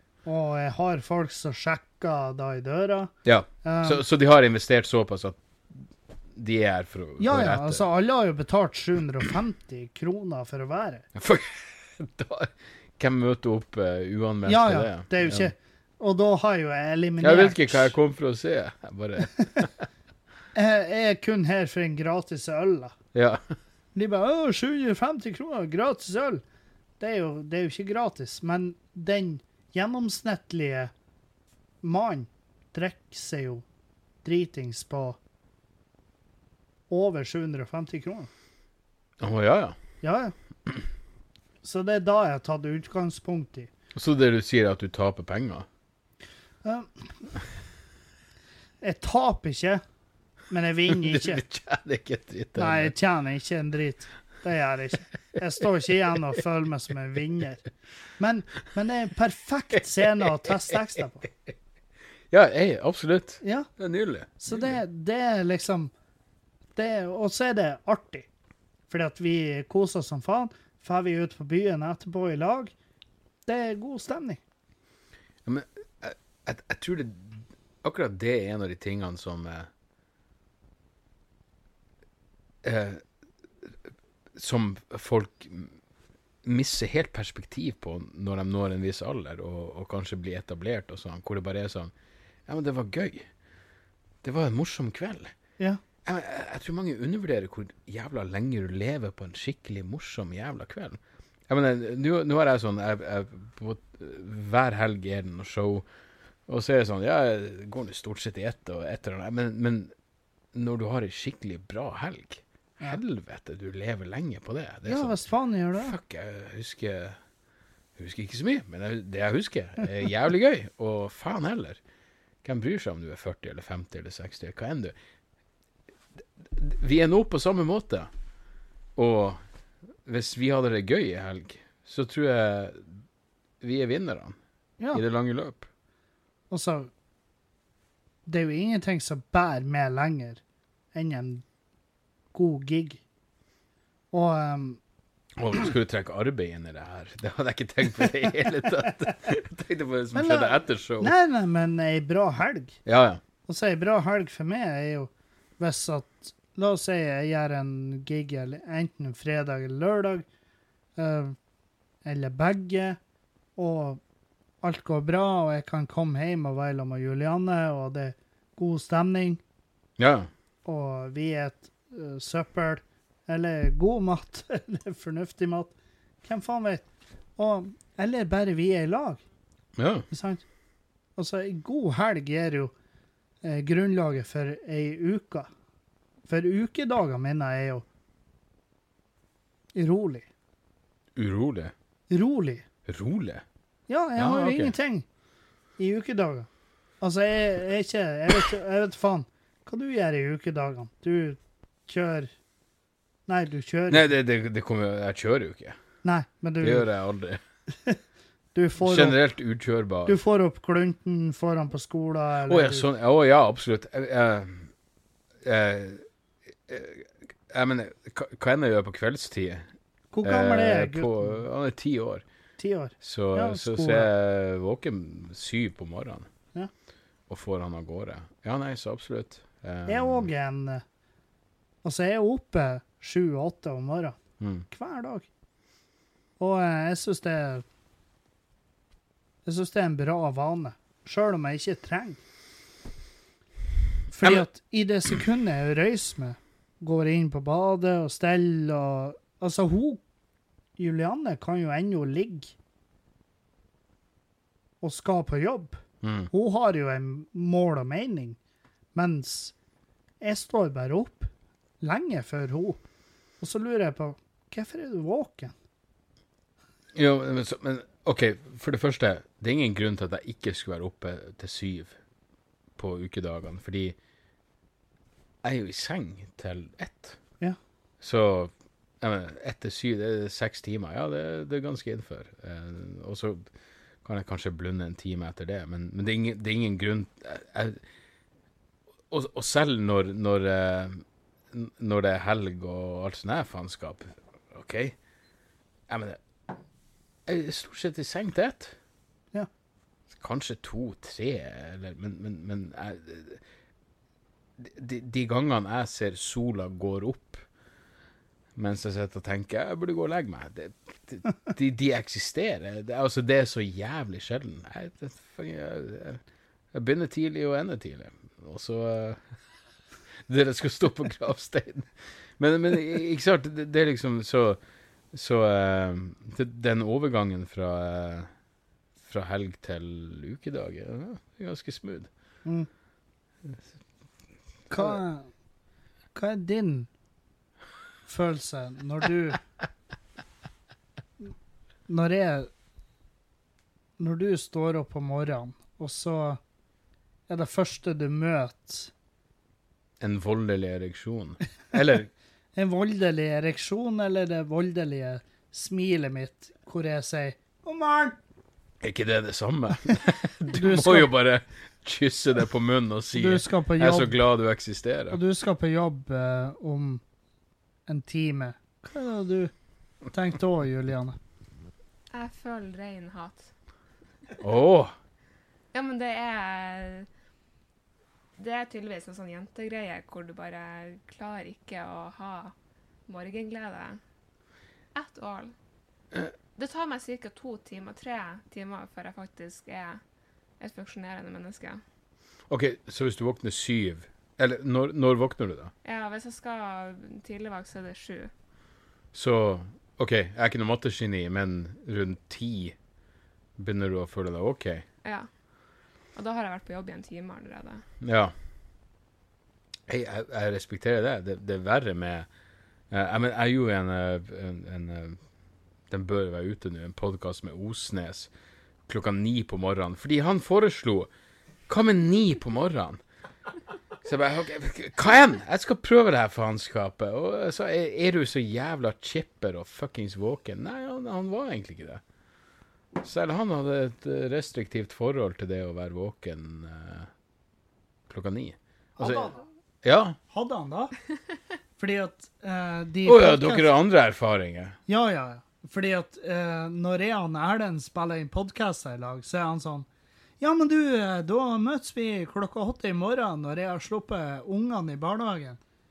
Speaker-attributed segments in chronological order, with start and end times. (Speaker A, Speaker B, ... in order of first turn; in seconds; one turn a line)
Speaker A: 0.2-3.1
Speaker B: 3.2-5.4
Speaker A: 3.6-4.0
Speaker B: 6.3-7.8
Speaker A: 7.2-11.1
Speaker B: 11.1-15.5
Speaker A: 14.4-17.9
Speaker B: 17.2-19.7
Speaker A: 20.5-22.9
Speaker B: 23.1-23.4
Speaker A: 23.9-26.4
Speaker A: 27.0-30.9
Speaker A: 31.8-33.6
Speaker A: 34.2-35.2
Speaker A: 36.9-38.3
Speaker B: 39.2-39.8
Speaker A: 40.0-40.3
Speaker A: 41.6-43.7
Speaker B: 43.9-45.6
Speaker A: 46.6-46.9
Speaker A: 48.8-49.8
Speaker A: 50.5-51.4
Speaker B: 50.9-52.9
Speaker A: 52.6-57.6
Speaker A: 58.2-61.2
Speaker B: 62.3-64.7
Speaker A: 63.4-63.7
Speaker A: 64.4-65.9
Speaker A: 66.8-68.3
Speaker A: 68.9-72.7
Speaker A: 73.5-74.4
Speaker B: 75.4-79.7
Speaker B: 82.6-83.0
Speaker B: 84.3-85.7
Speaker B: 86.4-91.9
Speaker B: 92.5-93.3
Speaker B: 94.2-95.3
Speaker B: 96.0-105.8
Speaker B: 106.5-109.9
Speaker B: 110.5-115.2
Speaker A: 114.8-116.0
Speaker B: 115.7-117.2
Speaker B: 118.0-121.8
Speaker B: 122.4-124.9
Speaker B: 126.4-128.1
Speaker B: 128.9-129.4
Speaker B: 130.0-132.8
Speaker B: 133.6-134.4
Speaker B: 134.9-135.7
Speaker A: 136.5-136.9
Speaker A: 138.2-140.4
Speaker A: 140.9-141.4
Speaker A: 142.3-143.0
Speaker A: 144.1-144.8
Speaker B: 145.4-151.1
Speaker A: 150.1-152.8
Speaker B: 152.8-153.2
Speaker A: 153.5-160.2
Speaker A: 160.9-161.3
Speaker A: 162.0-163.0
Speaker A: 163.6-164.0
Speaker A: 164.6-169.4
Speaker B: 170.0-170.3
Speaker A: 170.6-179.2
Speaker B: 179.8-180.1
Speaker A: 180.1-180.4
Speaker A: 181.2-182.7
Speaker A: 183.4-185.5
Speaker A: 186.3-187.8
Speaker A: 189.7-190.3
Speaker B: 191.2-191.7
Speaker A: 192.1-192.6
Speaker B: 192.8-193.4
Speaker A: 193.9-195.1
Speaker B: 194.2-194.7
Speaker A: 195.8-196.5
Speaker A: 197.0-202.3
Speaker A: 203.3-204.1
Speaker B: 203.9-205.8
Speaker A: 206.0-206.9
Speaker B: 206.6-207.4
Speaker A: 208.5-209.2
Speaker B: 208.8-210.2
Speaker A: 210.1-212.8
Speaker B: 212.5-214.7
Speaker B: 215.4-216.0
Speaker B: 216.7-219.7
Speaker A: 220.1-221.3
Speaker B: 220.2-222.2
Speaker A: 222.6-224.1
Speaker B: 223.0-226.3
Speaker B: 227.3-230.3
Speaker A: 229.9-230.8
Speaker A: 231.8-235.3
Speaker B: 234.4-234.7
Speaker A: 236.4-237.6
Speaker A: 239.4-242.2
Speaker A: 244.1-250.0
Speaker A: 250.8-252.5
Speaker A: 254.8-258.4
Speaker B: 256.0-256.3
Speaker A: 258.9-259.5
Speaker A: 260.2-261.3
Speaker A: 261.8-262.8
Speaker A: 263.4-265.5
Speaker B: 266.9-271.9
Speaker B: 272.8-273.9
Speaker B: 275.4-277.2
Speaker B: 278.0-283.5
Speaker B: 284.0-287.8
Speaker B: 289.1-294.9
Speaker B: 295.9-296.2
Speaker B: 297.2-298.7
Speaker B: 300.1-303.4
Speaker B: 304.6-307.4
Speaker B: 308.6-316.2
Speaker B: 316.7-319.2
Speaker B: 320.3-324.6
Speaker B: 325.1-328.3
Speaker B: 329.0-332.1
Speaker A: 334.7-335.3
Speaker A: 336.1-336.9
Speaker A: 338.1-339.4
Speaker A: 341.9-342.5
Speaker A: 344.0-346.4
Speaker A: 347.3-348.9
Speaker B: 350.0-352.1
Speaker A: 352.5-358.2
Speaker B: 358.8-365.2
Speaker A: 360.5-361.1
Speaker A: 363.1-364.1
Speaker A: 365.1-367.0
Speaker A: 367.9-369.5
Speaker A: 370.1-371.2
Speaker C: 372.1-373.5
Speaker B: 374.4-374.9
Speaker C: 375.7-377.1
Speaker C: 378.4-382.5
Speaker C: 383.1-384.0
Speaker C: 384.9-385.5
Speaker C: 386.6-390.0
Speaker C: 390.6-391.8
Speaker B: 392.5-395.7
Speaker C: 395.8-398.3
Speaker B: 399.1-402.8
Speaker B: 403.6-404.8
Speaker C: 405.0-405.3
Speaker C: 406.1-407.8
Speaker B: 408.0-408.3
Speaker B: 409.9-412.3
Speaker B: 412.9-415.2
Speaker B: 415.9-418.3
Speaker B: 418.9-421.1
Speaker B: 421.7-423.0
Speaker B: 424.0-432.0
Speaker B: 433.0-437.1
Speaker B: 438.1-439.3
Speaker A: 439.0-439.4
Speaker B: 439.8-440.2
Speaker A: 440.3-440.9
Speaker A: 441.8-443.7
Speaker B: 443.0-444.8
Speaker A: 444.9-449.9
Speaker A: 450.4-455.6